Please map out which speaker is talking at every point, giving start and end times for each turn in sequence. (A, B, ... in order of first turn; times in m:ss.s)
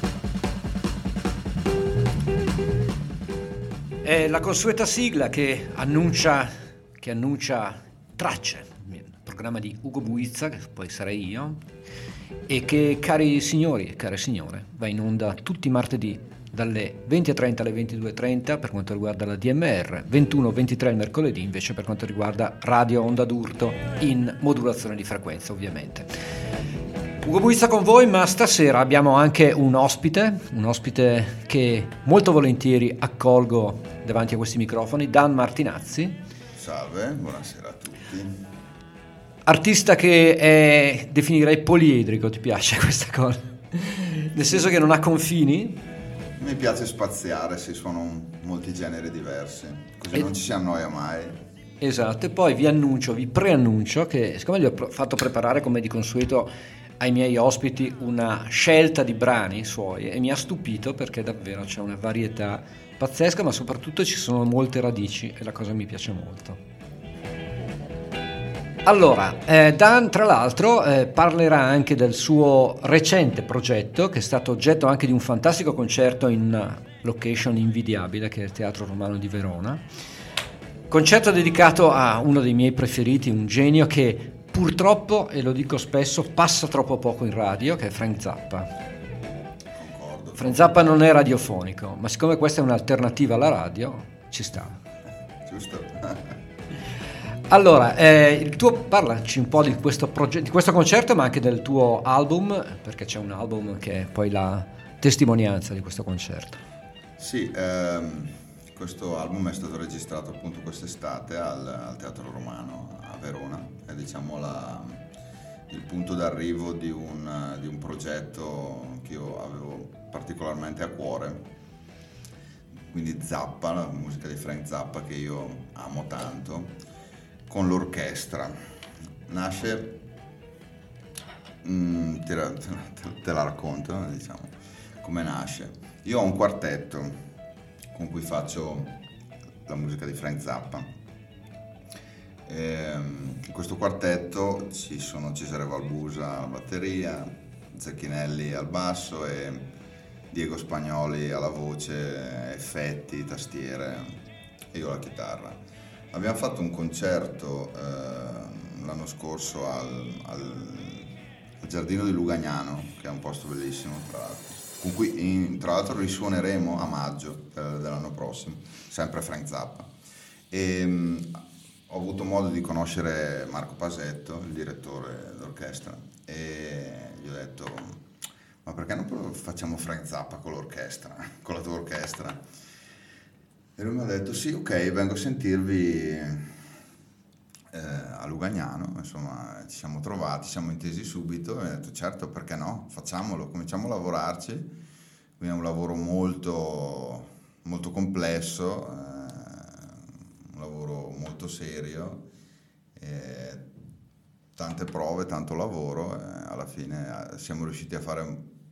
0:04.0-0:11.6 A
0:12.5-0:26.1 A
0:27.2-0:36.2 A
0:36.6-0:38.4 B
0:39.5-0:45.8 A
0:46.4-0:51.4 B
0:51.8-1:06.6 A
1:08.9-1:19.8 A
1:20.9-1:28.7 A
1:29.8-1:30.8 B
1:30.4-1:34.8 A
1:35.4-1:36.4 B
1:37.5-1:46.6 A
1:47.2-1:55.0 B
1:55.7-2:01.5 B
2:02.8-2:06.8 B
2:07.5-2:08.6 B
2:09.3-2:10.0 B
2:11.6-2:17.2 B
2:17.9-2:19.0 B
2:19.7-2:20.9 B
2:22.5-2:29.7 B
2:30.3-2:34.2 B
2:34.7-2:35.6 B
2:36.1-2:49.9 B
2:50.5-2:58.0 B
2:58.6-3:02.4 B
3:03.8-3:06.5 B
3:07.7-3:14.7 B
3:15.4-3:22.2 B
3:23.0-3:23.7 B
3:24.6-3:28.4 B